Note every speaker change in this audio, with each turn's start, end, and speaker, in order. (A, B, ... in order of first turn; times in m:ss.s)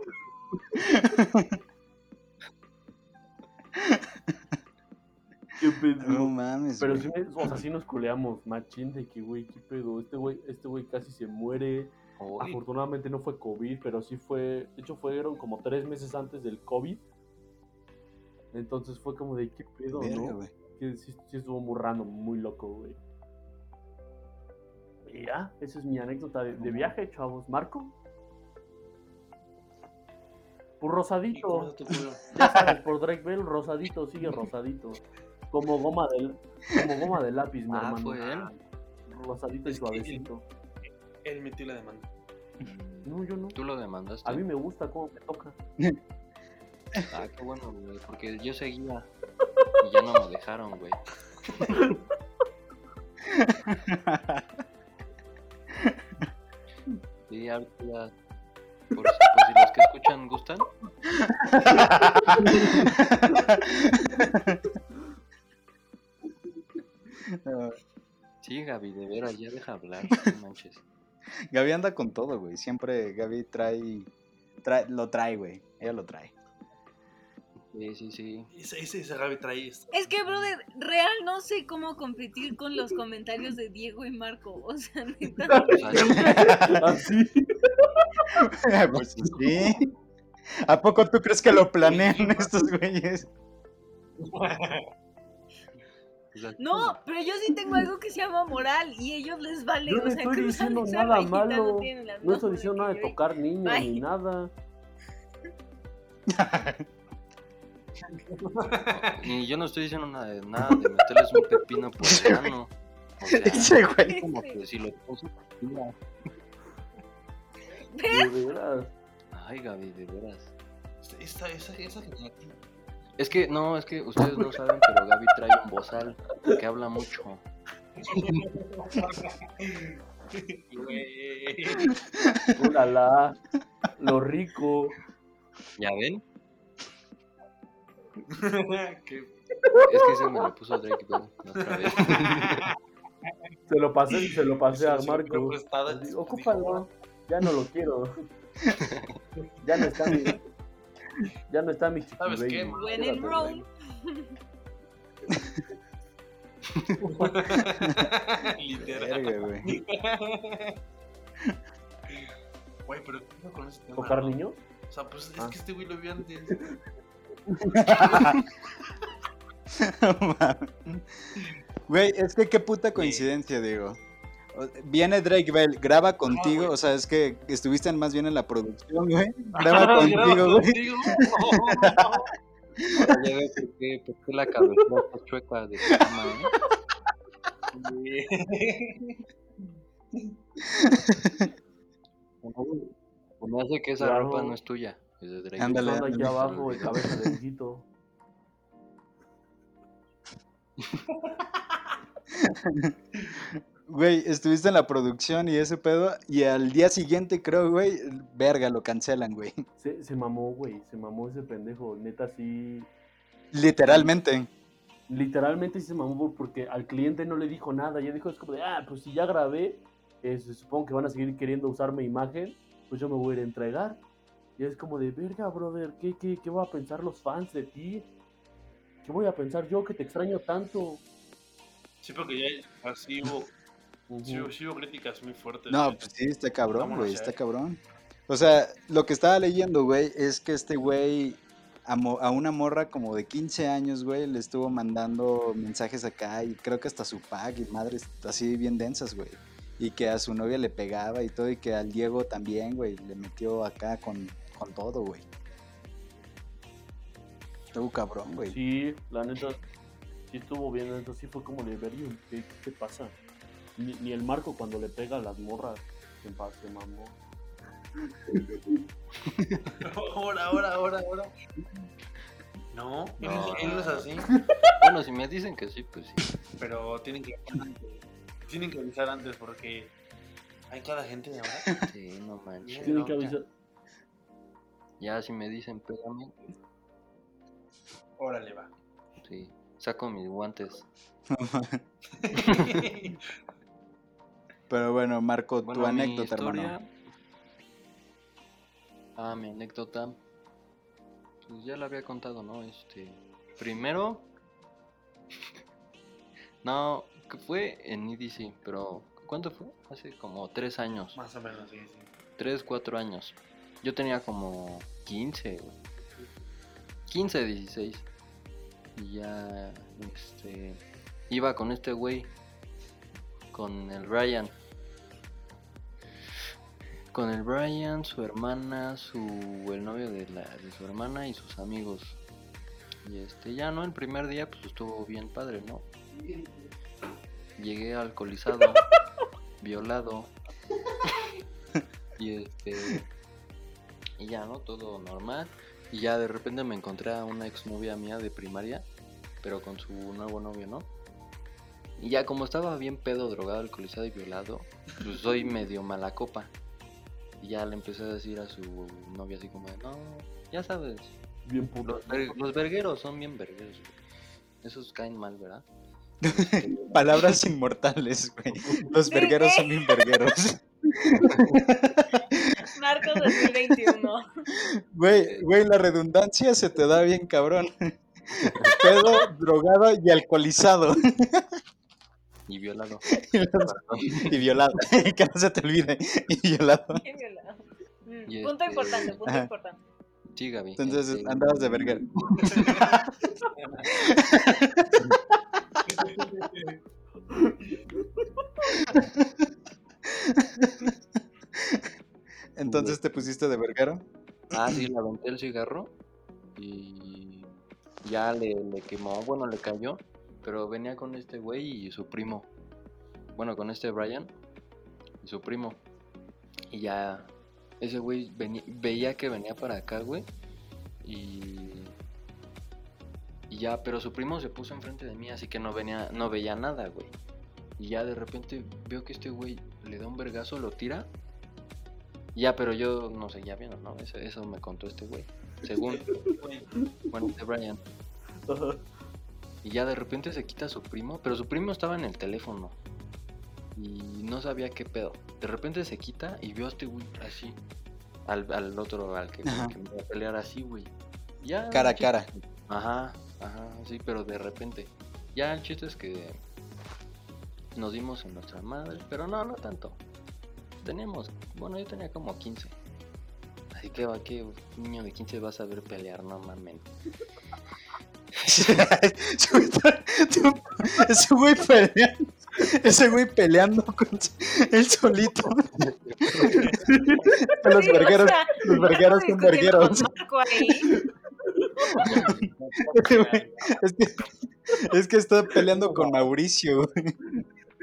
0:00.8-0:01.6 A
0:03.7-0:04.3 A
0:05.6-0:17.0 B
0:06.0-0:07.1 A
0:12.2-0:12.6 C
0:18.5-0:23.0 B
0:19.9-0:20.5 A
0:25.0-0:27.9 B
0:30.8-0:31.7 B
0:31.3-0:32.3 D
0:32.3-0:38.5 B
0:37.7-0:38.6 C
0:39.1-0:40.4 B
0:39.7-0:40.3 D
0:41.2-0:42.1 D
0:42.6-0:44.4 C
0:43.0-0:43.6 B
0:44.2-0:45.6 B
0:47.1-0:49.1 C
0:49.8-0:51.0 C
0:53.2-0:54.4 A
0:55.7-0:56.2 A
0:57.3-0:58.1 C
0:58.9-1:00.7 C
1:01.1-1:04.6 A
1:02.2-1:02.8 B
1:07.2-1:07.8 A
1:08.4-1:10.8 C
1:11.5-1:14.1 A
1:14.6-1:16.3 A
1:17.7-1:18.5 C
1:18.5-1:19.9 D
1:19.9-1:26.4 E
1:25.5-1:28.3 B
1:25.6-1:26.4 C
1:26.0-1:27.0 A
1:28.3-1:29.8 A
1:28.9-1:29.8 C
1:30.6-1:33.3 A
1:31.8-1:32.4 D
1:34.2-1:34.9 D
1:36.3-1:37.0 C
1:36.6-1:44.0 E
1:39.8-1:44.5 B
1:46.3-1:46.8 A
1:48.1-1:49.3 D
1:48.9-1:55.9 C
1:52.0-1:52.5 A
1:53.3-1:54.2 A
1:54.1-1:54.6 E
1:57.9-1:58.3 E
1:58.1-1:58.9 B
1:59.3-2:00.5 C
2:01.0-2:02.5 D
2:03.2-2:07.4 C
2:08.0-2:12.0 D
2:08.1-2:08.4 C
2:12.5-2:13.4 B
2:14.0-2:15.0 B
2:15.8-2:16.2 C
2:18.2-2:19.8 D
2:19.8-2:22.6 C
2:21.6-2:22.8 D
2:23.7-2:28.1 B
2:24.1-2:26.9 D
2:28.9-2:29.2 C
2:29.6-2:30.4 B
2:31.5-2:33.6 B
2:32.2-2:33.5 D
2:32.8-2:34.3 E
2:35.3-2:35.6 A
2:36.7-2:37.0 C
2:37.0-2:40.8 D
2:37.8-2:38.1 A
2:38.8-2:39.7 A
2:42.8-2:44.4 D
2:44.0-2:44.6 B
2:44.9-2:46.8 D
2:47.7-2:48.4 D
2:47.7-2:48.4 A
2:49.7-2:54.0 A
2:53.0-2:53.2 D
2:54.5-3:02.2 A
2:56.3-2:56.7 D
2:59.5-3:02.3 D
3:02.9-3:03.2 A
3:02.9-3:06.5 C
3:07.7-3:09.2 D
3:10.7-3:11.4 A
3:12.4-3:17.2 C
3:14.0-3:14.6 B
3:15.6-3:17.3 A
3:15.7-3:17.8 B
3:22.3-3:29.6 A
3:29.8-3:32.9 B
3:33.5-3:34.5 A
3:35.1-3:44.0 B
3:44.6-3:48.1 B
3:49.0-3:51.0 B
3:52.0-3:53.5 D
3:54.1-3:54.5 B
3:54.2-3:56.1 D
3:55.7-4:15.2 A
3:56.7-3:57.4 D
4:17.7-4:18.6 A
4:18.5-4:19.6 B
4:20.3-4:23.1 B
4:23.8-4:27.2 B
4:28.3-4:28.6 B
4:29.2-4:29.7 C
4:29.8-4:31.3 D
4:32.7-4:34.3 D
4:33.2-4:36.3 C
4:36.6-4:39.9 D
4:40.7-4:41.7 D
4:41.9-4:43.3 C
4:42.6-4:43.3 D
4:42.8-4:43.4 B
4:45.0-4:46.3 C
4:48.2-4:48.7 D
4:49.2-4:50.8 C
4:51.3-4:51.8 A
4:52.1-4:53.3 D
4:52.4-4:52.7 C
4:54.7-4:56.7 A
4:55.6-4:56.9 C
4:59.2-5:00.2 C
5:01.4-5:04.3 C
5:06.6-5:11.2 C
5:11.1-5:12.1 D
5:12.4-5:15.8 C
5:17.1-5:18.0 C
5:19.0-5:20.8 C
5:21.3-5:22.3 C
5:23.5-5:24.5 C
5:27.1-5:32.2 C
5:33.0-5:35.9 C
5:37.6-5:38.9 C
5:39.6-5:40.3 C
5:42.2-5:43.0 C
5:44.2-5:48.8 C
5:49.4-5:50.9 C
5:52.0-5:56.5 C
5:57.4-6:01.1 C
6:01.4-6:02.4 B
6:01.8-6:04.0 C
6:04.6-6:05.6 C
6:06.2-6:12.6 A
6:06.3-6:07.4 C
6:08.6-6:08.9 B
6:09.1-6:10.1 E
6:12.6-6:14.4 E
6:13.2-6:14.0 A
6:14.5-6:21.6 A
6:18.4-6:18.8 C
6:22.5-6:24.4 C
6:23.1-6:27.0 A
6:27.0-6:29.8 E
6:28.3-6:29.2 C
6:29.2-6:29.5 A
6:30.3-6:32.9 C
6:30.8-6:32.1 A
6:32.6-6:33.0 D
6:32.7-6:33.0 A
6:33.5-6:33.9 D
6:33.9-6:35.1 A
6:35.9-6:36.8 D
6:37.3-6:38.8 B
6:38.9-6:39.3 A
6:40.0-6:41.0 A
6:41.5-6:41.9 A
6:42.6-6:44.9 A
6:42.6-6:43.0 C
6:44.5-6:45.9 C
6:46.6-6:52.5 C
6:53.3-6:54.3 C
6:55.2-6:55.8 C
6:56.7-7:00.3 C
7:01.0-7:01.9 C
7:03.5-7:07.1 C
7:07.8-7:11.1 C
7:12.3-7:16.0 C
7:15.7-7:16.7 D
7:16.1-7:16.9 B
7:17.1-7:17.8 C
7:18.5-7:18.8 B
7:19.6-7:22.7 C
7:23.8-7:27.6 C
7:28.2-7:30.9 C
7:29.4-7:29.7 A
7:31.4-7:36.4 C
7:31.7-7:32.3 A
7:37.7-7:40.0 C
7:40.8-7:42.7 C
7:43.7-7:46.9 C
7:48.4-7:56.7 A
7:55.8-7:56.7 C
7:56.5-7:57.0 D
7:56.9-7:57.4 B
7:57.4-8:00.1 A
7:57.6-8:00.9 E
8:00.9-8:02.0 B
8:02.0-8:02.8 C
8:02.7-8:04.3 D
8:02.9-8:04.2 A
8:04.8-8:07.1 A